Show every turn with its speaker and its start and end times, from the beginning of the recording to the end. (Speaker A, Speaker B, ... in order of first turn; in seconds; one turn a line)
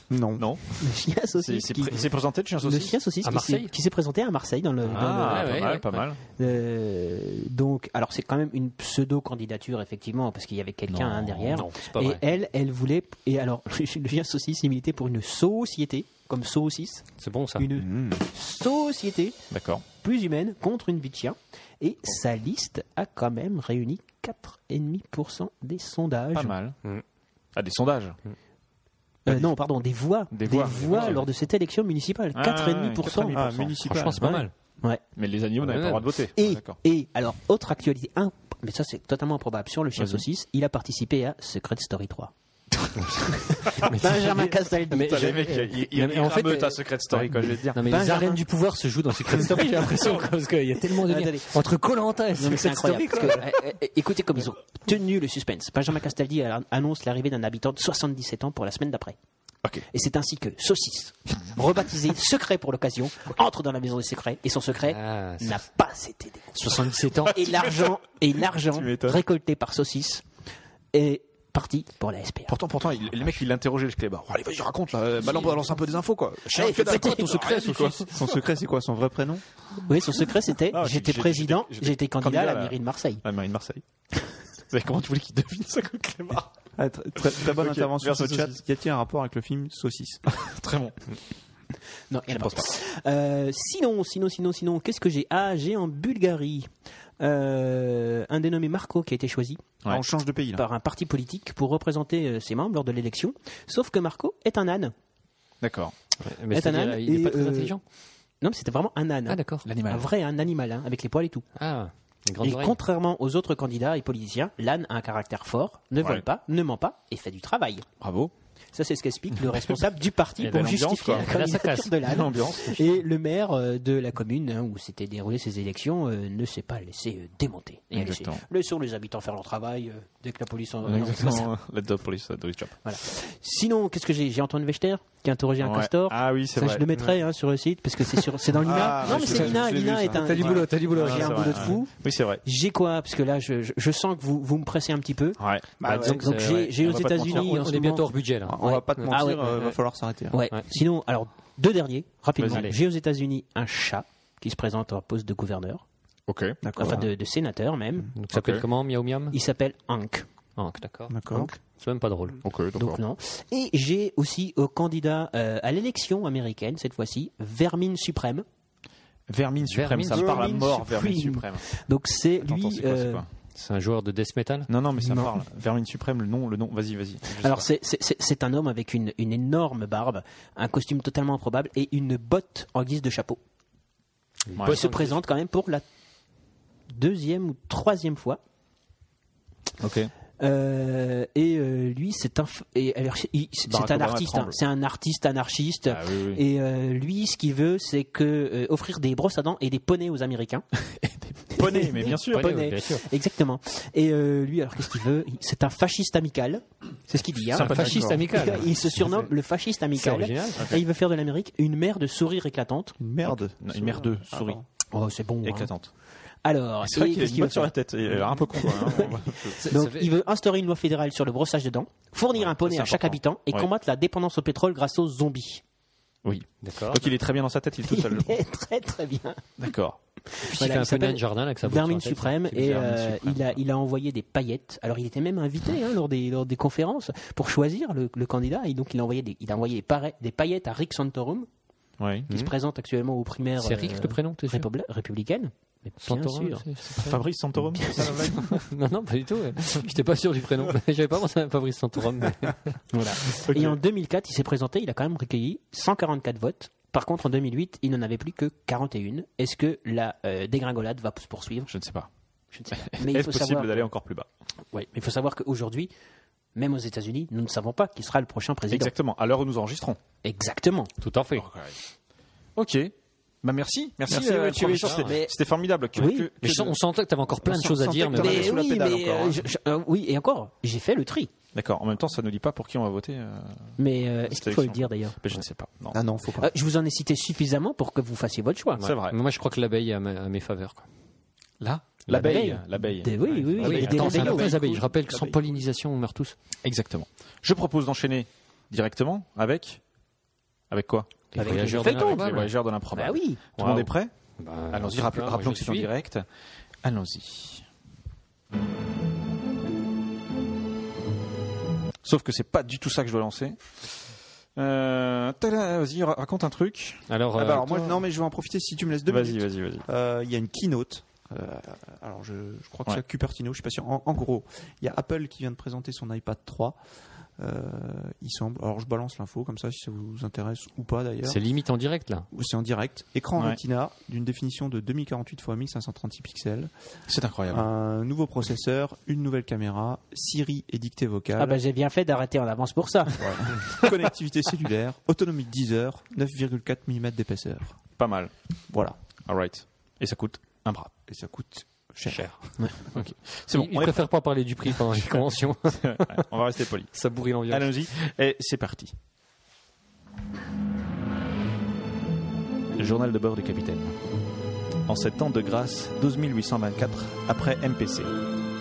Speaker A: 0.1-0.5
Speaker B: 0.4-0.8
Speaker C: 0.8-2.1
Speaker B: 1.4-3.0
Speaker C: 2.6-5.7
Speaker D: 3.2-3.7
Speaker D: 4.8-6.0
Speaker B: 4.9-6.2
Speaker C: 6.4-19.4
Speaker B: 10.9-11.6
Speaker D: 11.4-12.2
Speaker D: 17.2-17.6
Speaker A: 17.8-18.2
Speaker B: 19.5-19.8
Speaker C: 19.9-26.5
Speaker B: 26.3-26.8
Speaker B: 27.5-28.2
Speaker C: 29.2-35.0
Speaker B: 30.3-31.2
Speaker D: 30.7-31.2
Speaker B: 32.3-34.4
Speaker A: 33.3-34.4
Speaker D: 33.8-34.5
Speaker B: 35.1-36.8
Speaker D: 35.6-36.0
Speaker C: 36.4-42.3
Speaker B: 40.0-40.2
Speaker C: 43.3-45.5
Speaker B: 43.6-47.8
Speaker D: 43.8-53.4
Speaker C: 47.8-48.4
Speaker C: 49.3-50.2
Speaker C: 50.9-51.5
Speaker C: 52.4-59.2
Speaker C: 59.9-66.8
Speaker D: 64.9-65.6
Speaker D: 66.6-67.4
Speaker B: 66.6-68.0
Speaker C: 67.3-70.2
Speaker B: 68.7-69.2
Speaker C: 70.9-72.5
Speaker B: 72.5-78.4
Speaker C: 75.2-75.6
Speaker C: 76.5-78.1
Speaker A: 78.1-79.4
Speaker C: 79.8-83.2
Speaker B: 80.7-83.8
Speaker B: 84.7-86.5
Speaker A: 86.8-90.2
Speaker B: 87.3-88.6
Speaker B: 90.3-91.0
Speaker C: 92.1-96.7
Speaker B: 92.3-92.7
Speaker C: 97.2-99.7
Speaker A: 99.8-100.6
Speaker C: 100.5-104.9
Speaker B: 105.6-105.9
Speaker D: 106.2-107.8
Speaker C: 106.5-107.7
Speaker C: 108.4-111.4
Speaker D: 109.3-109.7
Speaker B: 109.6-110.1
Speaker D: 111.6-112.8
Speaker C: 112.4-117.8
Speaker B: 116.0-116.2
Speaker B: 118.0-118.3
Speaker C: 118.7-131.5
Speaker B: 119.4-119.8
Speaker B: 120.4-121.3
Speaker D: 120.4-122.0
Speaker B: 122.0-123.0
Speaker B: 127.9-128.4
Speaker B: 130.8-132.8
Speaker C: 132.8-145.4
Speaker B: 135.6-136.9
Speaker B: 138.2-139.6
Speaker A: 138.6-140.6
Speaker D: 139.2-139.5
Speaker D: 140.1-141.8
Speaker B: 140.9-142.4
Speaker B: 145.4-147.7
Speaker A: 145.8-146.2
Speaker D: 145.9-149.1
Speaker C: 146.0-148.1
Speaker A: 148.4-150.4
Speaker C: 148.6-149.7
Speaker C: 150.3-155.8
Speaker B: 152.4-152.7
Speaker D: 152.5-152.8
Speaker B: 156.3-156.6
Speaker A: 156.6-157.0
Speaker C: 156.8-158.1
Speaker D: 158.1-159.3
Speaker B: 158.3-158.6
Speaker C: 159.3-160.2
Speaker D: 160.6-162.4
Speaker A: 161.1-161.5
Speaker B: 162.4-163.0
Speaker C: 162.8-168.4
Speaker B: 169.3-171.7
Speaker D: 169.6-170.3
Speaker C: 170.1-173.2
Speaker B: 172.4-173.3
Speaker D: 173.5-174.7
Speaker B: 174.7-177.7
Speaker C: 175.0-175.3
Speaker C: 177.4-183.4
Speaker D: 184.5-185.2
Speaker B: 184.5-185.1
Speaker C: 184.7-185.8
Speaker C: 186.9-188.4
Speaker B: 189.8-190.1
Speaker C: 190.4-200.6
Speaker B: 193.7-194.6
Speaker B: 195.9-196.4
Speaker B: 200.9-202.6
Speaker C: 201.5-212.9
Speaker D: 202.2-203.1
Speaker B: 207.5-208.7
Speaker D: 207.6-208.7
Speaker D: 209.9-210.7
Speaker A: 213.0-214.6
Speaker B: 213.2-214.6
Speaker C: 214.9-215.7
Speaker B: 215.4-215.9
Speaker C: 216.4-225.6
Speaker B: 216.8-219.8
Speaker D: 219.7-220.1
Speaker B: 222.3-223.7
Speaker B: 226.2-228.3
Speaker D: 226.6-227.0
Speaker C: 227.9-229.4
Speaker B: 229.6-230.0
Speaker C: 230.3-241.5
Speaker D: 230.4-233.1
Speaker B: 232.5-233.4
Speaker B: 242.0-242.3
Speaker C: 242.3-246.7
Speaker D: 243.6-244.7
Speaker D: 246.0-247.2
Speaker B: 247.0-248.6
Speaker C: 247.8-248.3
Speaker D: 248.0-252.8
Speaker C: 252.9-261.7
Speaker B: 253.4-253.8
Speaker B: 261.7-262.1
Speaker C: 262.5-263.9
Speaker B: 262.7-264.2
Speaker C: 264.7-265.9
Speaker C: 266.5-268.9
Speaker B: 268.7-270.0
Speaker C: 270.2-270.9
Speaker D: 271.0-271.4
Speaker B: 271.4-271.8
Speaker B: 272.6-276.8
Speaker A: 274.1-274.6
Speaker C: 274.1-275.3
Speaker D: 274.8-275.1
Speaker C: 275.9-276.3
Speaker D: 276.4-278.5
Speaker A: 277.4-279.4
Speaker C: 278.1-281.3
Speaker B: 281.5-286.0
Speaker C: 283.8-285.2
Speaker A: 285.9-286.5
Speaker C: 286.4-288.9
Speaker D: 288.8-290.8
Speaker B: 288.8-289.2
Speaker B: 291.6-294.4
Speaker C: 292.1-294.6
Speaker A: 293.5-295.5
Speaker D: 293.6-296.3
Speaker B: 296.6-299.8
Speaker B: 300.7-304.1
Speaker D: 301.3-302.5
Speaker C: 301.4-302.2
Speaker C: 302.9-303.4
Speaker D: 303.6-305.9
Speaker B: 304.7-306.2
Speaker B: 306.8-307.6
Speaker B: 312.0-313.6
Speaker B: 314.6-317.8
Speaker D: 317.1-318.0
Speaker A: 317.4-326.8
Speaker B: 319.1-319.9
Speaker A: 327.4-331.4
Speaker D: 331.2-332.3
Speaker A: 332.3-336.7
Speaker B: 337.1-337.7
Speaker A: 337.5-341.6
Speaker C: 341.4-343.4
Speaker A: 343.2-347.8
Speaker B: 348.0-348.3
Speaker A: 348.7-348.9
Speaker B: 349.3-350.9
Speaker A: 351.1-352.3
Speaker D: 352.1-352.4
Speaker B: 352.9-354.1
Speaker D: 352.9-356.2
Speaker B: 354.9-355.2
Speaker B: 355.8-356.9
Speaker D: 356.9-357.7
Speaker B: 357.5-358.9
Speaker B: 362.8-363.9
Speaker B: 364.9-368.1